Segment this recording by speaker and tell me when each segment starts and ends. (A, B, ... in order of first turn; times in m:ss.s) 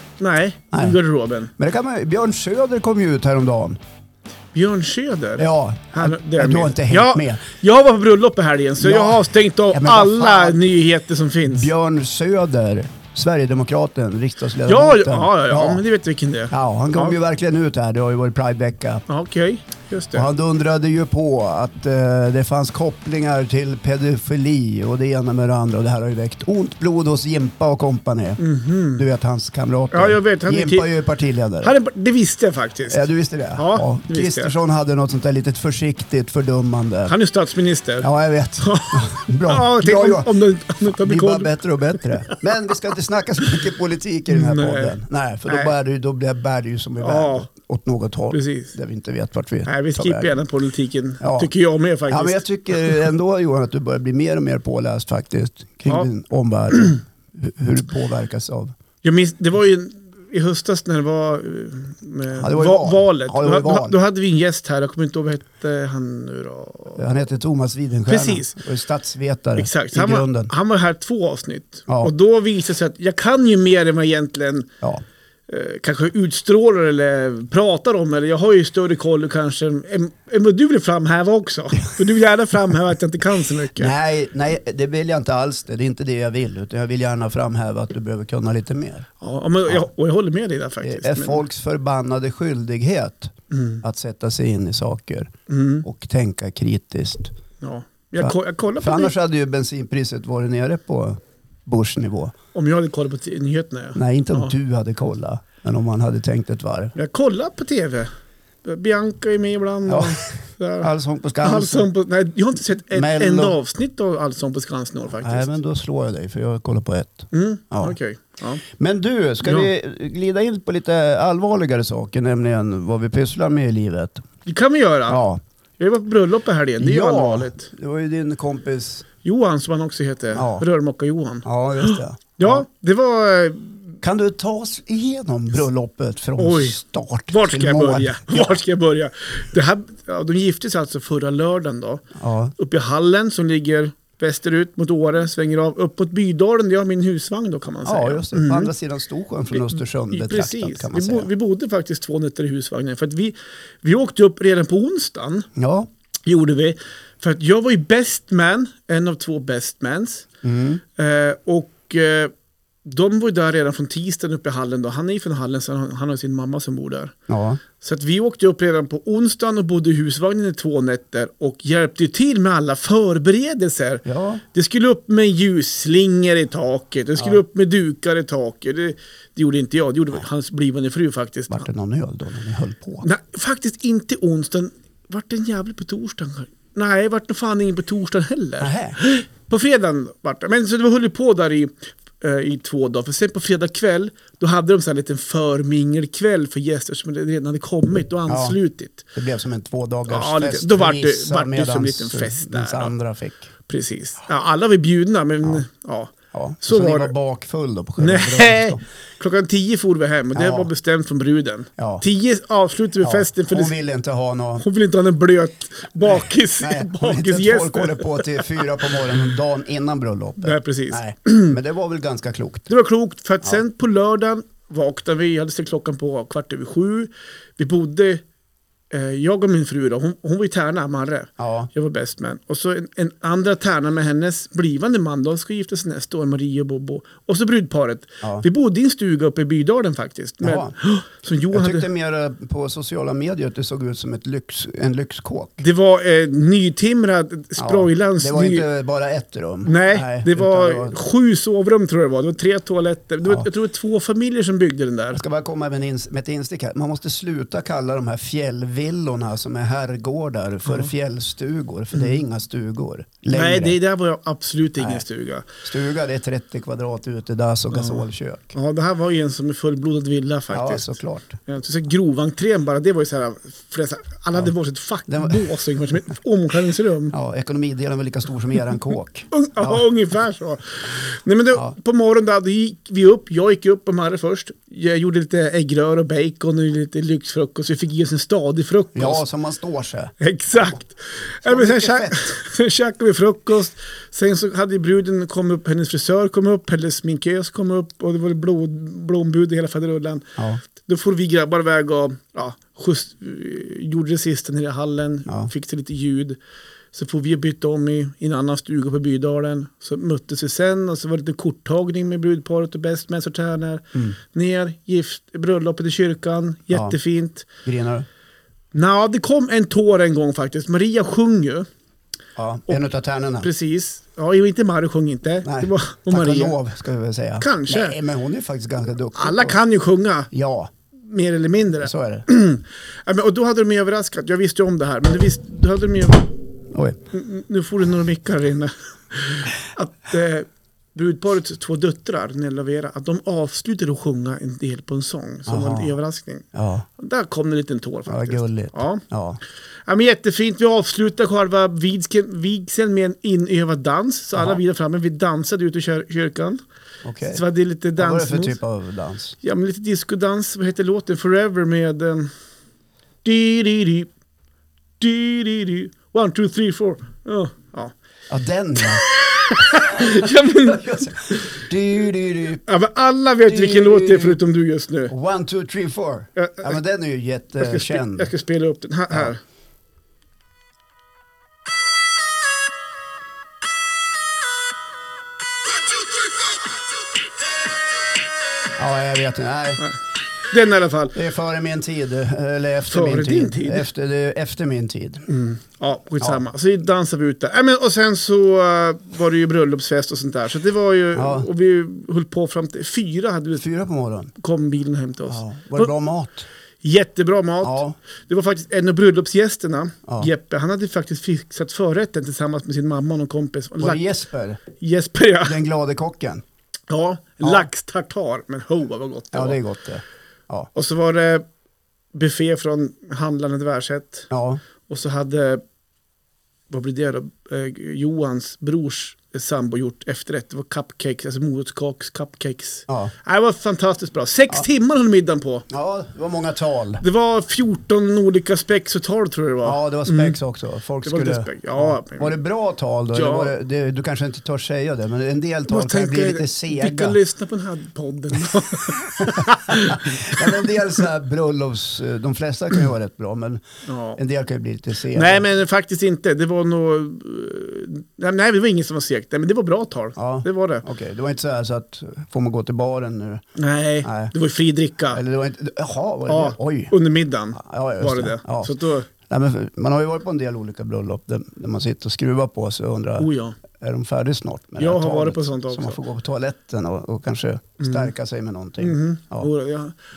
0:00.2-0:01.5 A
0:00.7-0:01.0 B
0:01.6-0:03.8 B
0:04.5-0:11.7 A
0:05.4-0:07.4 B
0:08.8-0:10.6 B
0:11.5-0:15.8 B
0:14.7-0:17.2 A
0:16.5-0:19.0 B
0:19.1-0:20.3 A
0:20.1-0:28.4 B
0:28.4-0:29.0 A
0:29.0-0:31.7 B
0:29.9-0:30.9 A
0:31.6-0:33.0 A
0:32.9-0:37.2 B
0:33.6-0:34.5 A
0:37.1-0:38.1 A
0:38.0-0:40.3 B
0:38.6-0:42.4 A
0:41.0-0:50.4 B
0:44.3-0:45.0 A
0:47.0-0:47.5 A
0:48.3-0:48.8 A
0:49.7-0:53.0 A
0:51.2-0:51.5 B
0:52.1-0:58.7 B
0:59.0-1:07.1 A
1:02.4-1:04.0 B
1:07.0-1:10.5 B
1:08.1-1:08.6 A
1:09.6-1:14.7 A
1:15.5-1:23.9 A
1:23.8-1:29.1 B
1:29.2-1:31.4 A
1:30.8-1:35.3 B
1:33.5-1:33.8 A
1:35.5-1:35.8 A
1:35.8-1:37.4 B
1:37.6-1:39.1 A
1:38.2-1:42.3 B
1:42.5-1:44.5 A
1:44.0-1:47.0 B
1:47.0-1:48.1 A
1:48.6-1:50.9 A
1:49.9-1:50.3 B
1:50.8-1:51.9 B
1:51.4-1:55.6 A
1:52.9-1:53.6 B
1:55.2-1:58.0 B
1:57.3-1:58.6 A
1:58.8-2:04.2 B
2:04.5-2:05.2 A
2:05.1-2:05.4 B
2:05.8-2:07.7 A
2:06.8-2:09.0 B
2:09.2-2:14.0 A
2:10.3-2:10.6 B
2:11.4-2:12.6 B
2:14.0-2:18.6 B
2:16.4-2:16.8 A
2:17.3-2:28.7 A
2:22.2-2:22.5 B
2:27.8-2:31.3 B
2:29.5-2:35.5 A
2:35.6-2:35.9 B
2:36.3-2:40.3 A
2:40.4-2:40.8 B
2:41.0-2:42.3 A
2:42.8-2:47.2 A
2:47.3-2:47.6 B
2:47.8-3:01.7 A
2:54.0-2:54.4 B
3:01.5-3:03.1 B
3:03.0-3:19.1 A
3:08.6-3:09.0 B
3:18.3-3:18.6 B
3:19.1-3:23.5 B
3:20.1-3:22.9 A
3:23.7-3:27.1 A
3:26.3-3:28.8 B
3:28.0-3:33.7 A
3:30.4-3:30.7 B
3:31.8-3:32.0 B
3:33.0-3:34.6 B
3:34.6-3:39.0 A
3:36.1-3:42.7 B
3:40.4-3:41.6 A
3:42.7-3:48.2 A
3:48.9-4:01.9 A
3:51.4-3:51.7 B
4:00.4-4:00.7 B
4:01.5-4:05.6 B
4:05.6-4:08.7 A
4:07.6-4:11.0 B
4:09.6-4:15.2 A
4:15.1-4:23.8 B
4:23.3-4:25.5 A
4:24.8-4:25.0 B
4:25.6-4:28.6 B
4:27.7-4:28.0 A
4:28.6-4:37.1 A
4:30.5-4:31.4 B
4:35.1-4:35.4 B
4:37.1-4:39.8 B
4:39.3-4:49.2 A
4:48.9-4:50.8 B
4:50.2-5:06.4 A
4:51.4-4:52.2 B
5:00.4-5:00.6 B
5:06.9-5:17.5 A
5:17.6-5:18.1 B
5:18.7-5:21.7 A
5:22.4-5:23.5 B
5:23.4-5:26.6 A
5:25.4-5:29.6 B
5:27.4-5:28.0 A
5:29.2-5:30.3 A
5:30.3-5:30.7 B
5:30.9-5:36.4 A
5:31.8-5:32.2 B
5:36.7-5:37.0 B
5:37.1-5:46.5 A
5:45.5-5:45.9 B
5:46.5-5:46.9 B
5:47.0-5:49.0 A
5:48.1-5:49.4 B
5:49.9-5:56.6 A
5:57.0-5:57.4 B
5:57.2-5:58.6 A
5:58.0-5:59.4 B
5:59.4-6:02.3 A
6:03.2-6:04.1 A
6:05.0-6:07.9 A
6:08.3-6:09.1 B
6:08.9-6:11.6 A
6:09.7-6:12.6 B
6:12.7-6:15.1 A
6:13.4-6:14.4 B
6:15.1-6:18.3 B
6:16.4-6:16.7 A
6:17.6-6:19.4 A
6:28.8-6:29.8 B
6:30.5-6:31.2 A
6:31.1-6:35.3 B
6:32.9-6:33.9 A
6:35.3-6:43.7 A
6:41.2-6:41.5 B
6:43.6-6:44.3 B
6:44.4-6:45.9 A
6:45.3-6:46.5 B
6:46.8-6:54.0 A
6:47.6-6:48.0 B
6:50.1-6:50.3 B
6:53.8-6:54.6 B
6:54.7-6:55.6 A
6:55.4-6:56.4 B
6:56.9-6:59.6 A
6:57.4-6:57.7 B
6:59.3-7:00.7 B
7:00.8-7:01.4 A
7:02.1-7:04.3 A
7:04.3-7:04.6 B
7:04.9-7:05.6 A
7:06.7-7:15.7 A
7:12.9-7:13.1 B
7:15.7-7:17.0 B
7:17.0-7:20.4 A
7:19.6-7:27.2 B
7:21.0-7:22.4 A
7:23.1-7:23.5 A
7:25.7-7:30.9 A
7:29.2-7:33.6 B
7:33.9-7:34.2 A
7:34.2-7:35.4 B
7:35.1-7:40.8 A
7:40.2-7:43.4 B
7:43.6-7:45.2 A
7:44.0-7:44.3 B
7:45.1-7:46.9 B
7:46.3-7:49.1 A
7:47.6-7:48.8 B
7:49.3-7:59.5 B
7:53.2-7:53.6 A
7:54.8-7:56.0 A
7:57.8-7:58.1 A
7:58.8-8:00.0 A